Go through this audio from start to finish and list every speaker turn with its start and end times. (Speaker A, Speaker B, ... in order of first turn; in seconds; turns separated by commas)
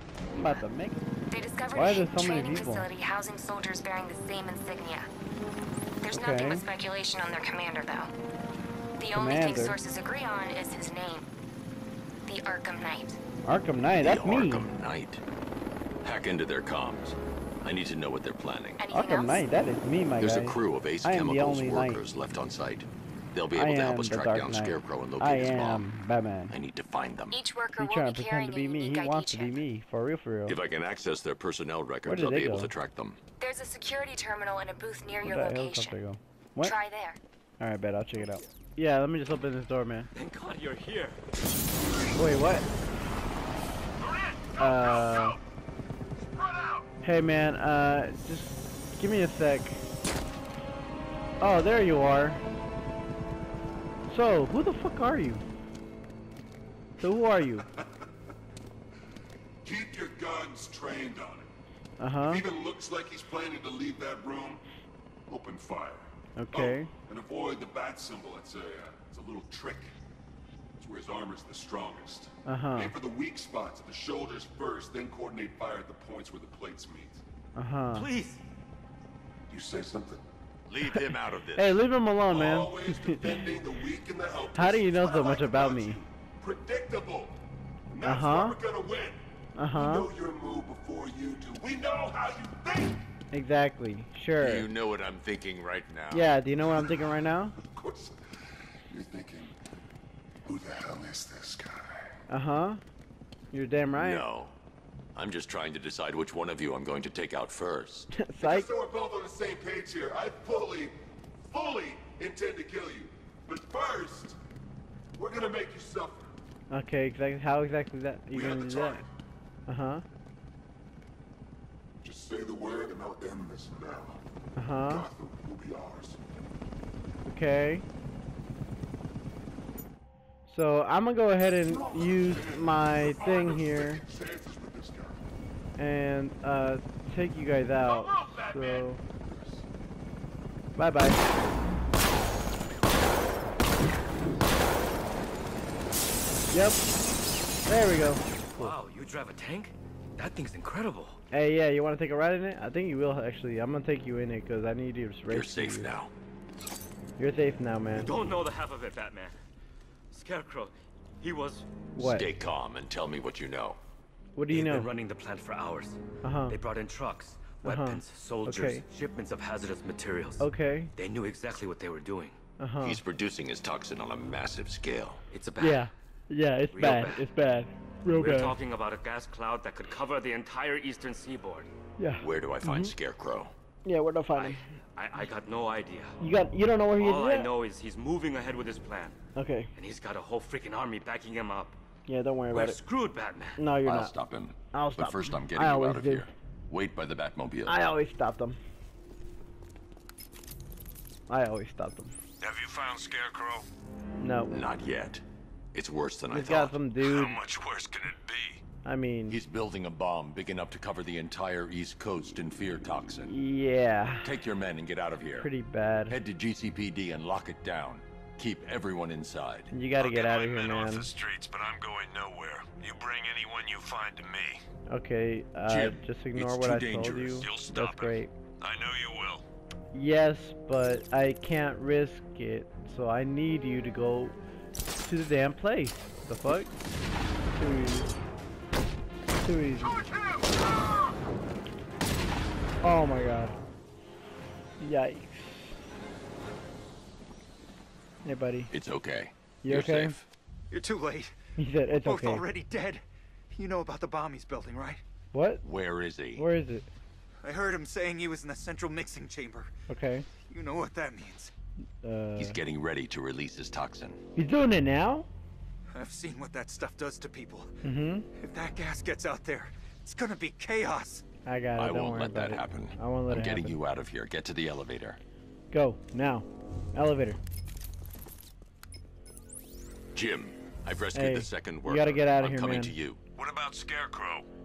Speaker A: 0.3-1.0, Speaker B: 1.3-5.1, Speaker A: 1.7-2.9, Speaker B: 6.0-8.1, Speaker A: 6.1-6.6, Speaker B: 9.0-11.3, Speaker A: 9.1-9.8, Speaker B: 12.3-13.2, Speaker A: 13.4-14.7, Speaker C: 14.0-15.2, Speaker C: 16.0-18.8, Speaker B: 18.8-19.4, Speaker A: 18.9-22.0, Speaker C: 20.2-25.8, Speaker A: 23.5-26.5, Speaker C: 26.5-27.4, Speaker B: 27.3-29.6, Speaker A: 27.8-30.6, Speaker C: 30.5-33.2, Speaker A: 32.0-32.7, Speaker B: 33.4-36.0, Speaker A: 35.2-36.7, Speaker B: 36.6-37.2, Speaker A: 37.6-40.1, Speaker D: 40.1-41.2, Speaker A: 42.1-42.6, Speaker E: 44.1-44.6, Speaker A: 44.6-45.4, Speaker E: 46.4-46.8, Speaker A: 47.0-49.8, Speaker A: 51.4-52.4, Speaker A: 54.1-55.4, Speaker A: 57.0-57.7, Speaker F: 59.6-61.5, Speaker A: 62.0-62.5, Speaker F: 62.2-64.6, Speaker F: 65.3-70.0, Speaker A: 66.3-66.9, Speaker F: 70.8-77.2, Speaker A: 72.4-73.0, Speaker A: 77.5-78.1, Speaker D: 77.9-78.4, Speaker F: 79.5-80.2, Speaker C: 80.7-81.8, Speaker A: 81.5-83.4, Speaker F: 82.3-87.4, Speaker A: 84.5-86.0, Speaker F: 87.9-89.2, Speaker A: 88.0-88.6, Speaker A: 89.5-90.1, Speaker F: 89.7-93.0, Speaker A: 93.3-94.7, Speaker C: 94.4-96.4, Speaker A: 96.1-97.6, Speaker F: 97.6-98.1, Speaker F: 98.9-99.5, Speaker F: 100.5-102.1, Speaker A: 102.3-102.8, Speaker A: 103.5-104.2, Speaker C: 103.9-104.5, Speaker C: 105.1-108.1, Speaker A: 108.1-108.7, Speaker F: 108.4-110.9, Speaker F: 111.5-114.4, Speaker F: 115.2-116.3, Speaker A: 116.7-119.0, Speaker F: 118.3-119.0, Speaker A: 119.7-120.0, Speaker F: 122.0-124.2, Speaker A: 124.5-125.0, Speaker F: 124.8-126.2, Speaker A: 127.2-127.8, Speaker A: 130.5-134.0, Speaker F: 131.6-135.2, Speaker A: 135.8-139.0, Speaker F: 137.8-139.7, Speaker A: 140.8-141.2, Speaker A: 146.5-146.8, Speaker A: 147.7-148.8, Speaker D: 148.6-151.2, Speaker A: 151.3-155.9, Speaker C: 155.3-156.1, Speaker A: 157.2-158.1, Speaker D: 158.0-159.3, Speaker D: 160.1-161.7, Speaker A: 161.9-162.3, Speaker C: 161.9-163.8, Speaker A: 164.3-164.9, Speaker D: 164.5-172.3, Speaker A: 166.2-166.6, Speaker A: 167.6-168.8, Speaker A: 170.4-170.9, Speaker A: 172.6-173.0, Speaker C: 172.8-175.2, Speaker D: 175.3-175.8, Speaker A: 175.6-178.6, Speaker D: 176.7-177.2, Speaker D: 178.1-181.7, Speaker A: 182.0-182.9, Speaker C: 182.2-183.5, Speaker A: 183.8-184.6, Speaker D: 184.3-186.1, Speaker A: 186.2-187.5, Speaker D: 186.9-189.2, Speaker A: 189.3-189.7, Speaker D: 189.7-191.8, Speaker A: 192.1-192.8, Speaker D: 192.5-193.6, Speaker A: 193.6-194.1, Speaker C: 193.8-197.8, Speaker A: 194.7-196.3, Speaker A: 197.7-198.6, Speaker A: 201.3-202.1, Speaker E: 202.4-203.7, Speaker A: 204.2-204.5, Speaker C: 204.5-205.2, Speaker C: 205.7-206.8, Speaker A: 206.3-207.4, Speaker E: 207.0-208.6, Speaker A: 208.8-209.4, Speaker C: 209.3-213.3, Speaker A: 213.2-214.3, Speaker C: 214.2-215.5, Speaker A: 215.4-216.1, Speaker C: 216.1-219.7, Speaker A: 219.7-221.1, Speaker E: 219.9-224.6, Speaker A: 224.9-228.3, Speaker C: 225.7-227.5, Speaker E: 227.4-229.4, Speaker A: 229.9-234.3, Speaker A: 235.0-236.7, Speaker A: 237.6-238.1, Speaker A: 239.4-240.1, Speaker A: 242.8-243.5, Speaker A: 244.8-245.7, Speaker A: 248.2-248.7, Speaker C: 248.7-250.2, Speaker A: 249.6-250.2, Speaker G: 250.7-251.3, Speaker A: 251.6-252.4, Speaker G: 251.9-255.0, Speaker A: 255.3-255.6, Speaker C: 255.6-256.5, Speaker A: 256.3-256.9, Speaker G: 257.4-259.7, Speaker A: 259.9-260.2, Speaker G: 260.4-261.5, Speaker A: 262.0-262.6, Speaker C: 262.4-264.2, Speaker A: 264.4-265.3, Speaker G: 265.9-267.7, Speaker A: 267.8-268.2, Speaker G: 268.4-271.2, Speaker A: 271.4-273.8, Speaker C: 271.8-275.2, Speaker A: 275.7-277.4, Speaker C: 280.1-283.2, Speaker A: 281.1-282.9, Speaker E: 283.4-284.5